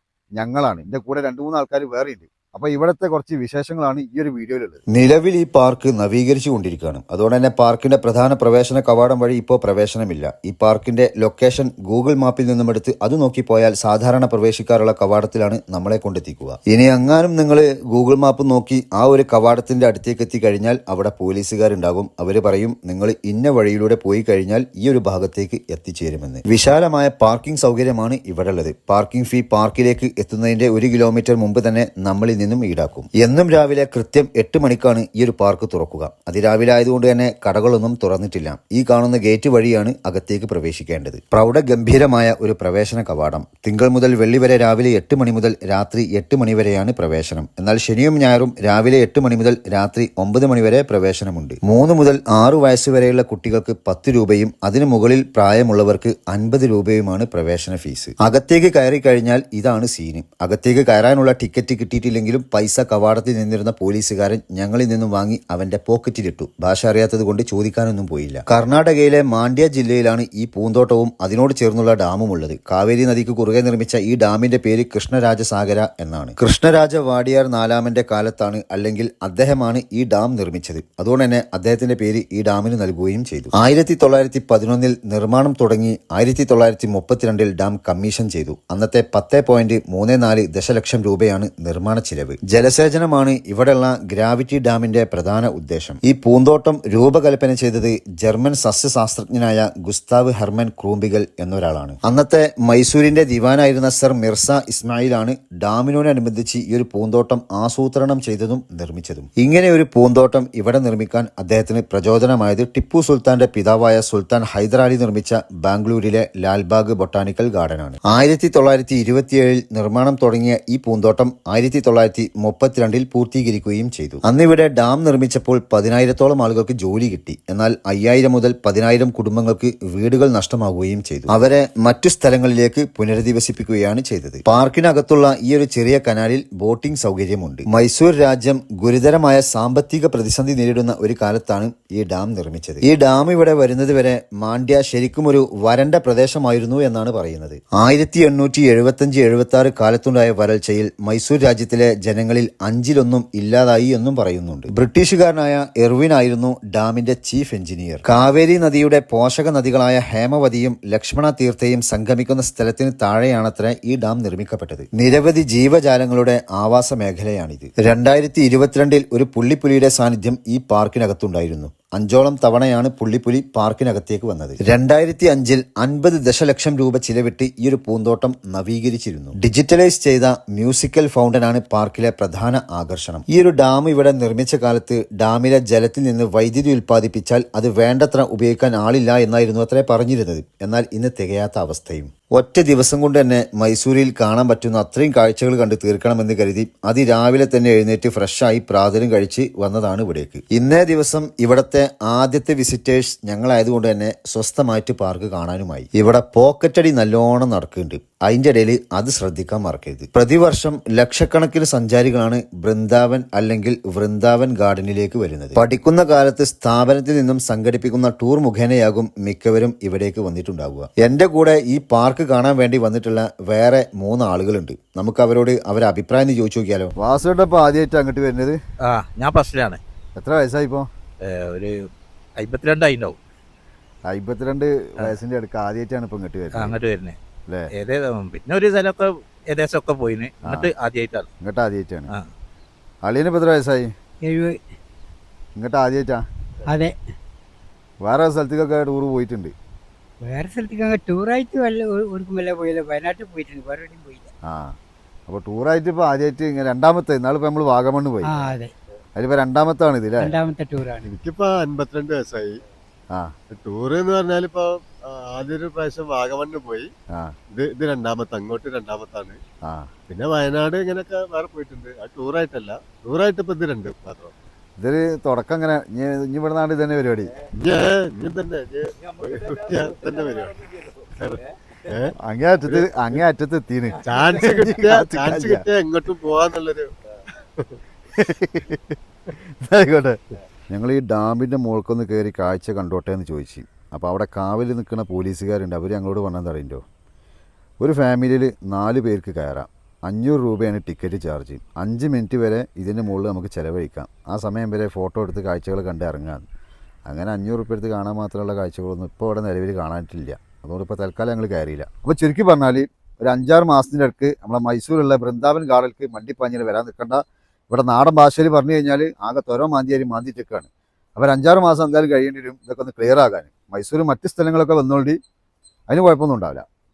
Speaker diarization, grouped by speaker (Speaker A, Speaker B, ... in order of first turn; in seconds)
Speaker A: 0.4-4.9, 227.0-228.6, 230.2-230.9, 234.1-236.8, 241.4-242.1, 243.1-243.9, 245.6-246.2, 248.0-249.5, 254.4-254.8, 255.3-258.4, 259.2-260.3, 274.8-277.3, 282.2-285.7, 288.1-290.2, 290.7-296.8, 297.8-306.5, 307.1-325.2, 325.9-326.6
Speaker B: 4.9-226.9
Speaker C: 228.9-229.8, 231.2-231.8, 232.4-233.2, 236.6-237.2, 237.8-241.3
Speaker D: 244.3-244.5, 246.7-246.9, 250.3-254.2, 258.3-258.7, 260.2-261.0
Speaker E: 261.1-262.5, 263.5-266.9, 267.6-269.4, 270.1-274.3, 277.6-280.6, 281.2-282.1, 284.1-286.9